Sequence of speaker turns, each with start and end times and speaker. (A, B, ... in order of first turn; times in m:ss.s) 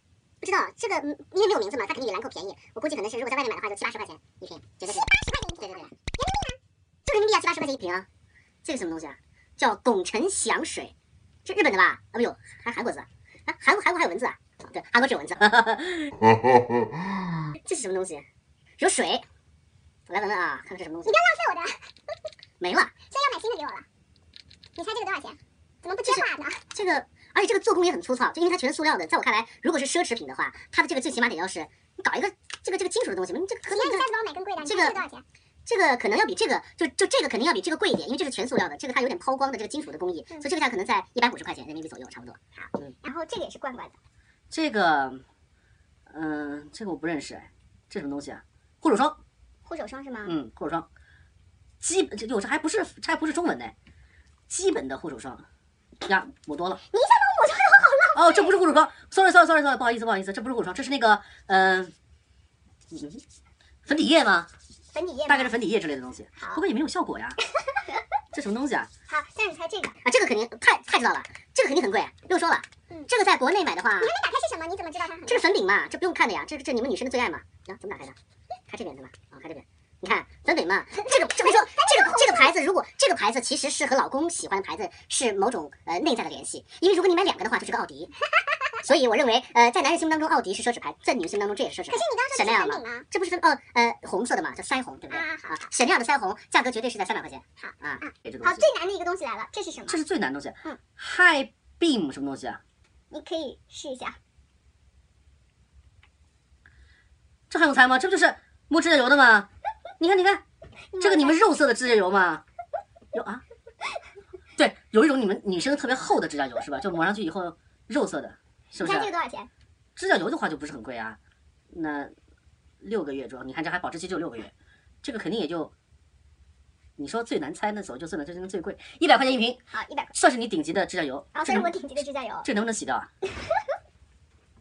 0:00.4-0:05.9 A
0:04.9-0:06.6 B
0:07.0-0:08.1 A
0:08.6-0:10.9 A
0:11.4-0:15.6 A
0:15.5-0:16.1 C
0:17.5-0:18.2 A
0:18.8-0:19.2 A
0:20.1-0:21.2 A
0:21.0-0:21.7 B
0:22.6-0:23.0 A
0:23.1-0:23.8 B
0:24.8-0:26.6 B
0:26.0-0:34.1 A
0:33.7-0:35.2 B
0:34.6-0:35.0 A
0:35.7-0:42.4 A
0:42.6-0:44.0 B
0:44.5-0:45.2 C
0:46.1-0:49.2 C
0:49.6-0:50.4 B
0:50.2-0:50.9 C
0:51.8-0:53.7 C
0:54.5-0:55.4 C
0:56.0-0:56.8 C
0:56.9-0:58.6 B
0:58.1-1:01.9 C
1:02.9-1:03.2 C
1:03.9-1:04.5 C
1:04.9-1:05.6 B
1:05.3-1:07.4 C
1:07.6-1:07.9 B
1:08.3-1:08.9 C
1:09.1-1:10.0 B
1:10.0-1:14.1 A
1:14.0-1:15.4 B
1:15.2-1:18.2 A
1:18.7-1:28.1 A
1:21.0-1:22.5 B
1:28.8-1:38.0 A
1:31.9-1:33.0 B
1:35.1-1:35.6 B
1:37.6-1:40.0 B
1:38.2-1:38.6 C
1:39.9-1:42.6 C
1:43.1-1:44.2 B
1:47.5-1:49.5 C
1:50.0-1:50.4 C
1:50.9-1:51.4 B
1:51.0-1:52.4 C
1:53.1-1:53.4 C
1:54.6-1:59.1 C
1:58.8-1:59.5 B
2:00.0-2:01.2 C
2:01.7-2:02.1 C
2:02.8-2:04.5 C
2:05.0-2:05.7 C
2:07.0-2:09.6 C
2:09.7-2:10.1 B
2:10.1-2:11.7 C
2:11.3-2:12.5 B
2:12.4-2:13.1 C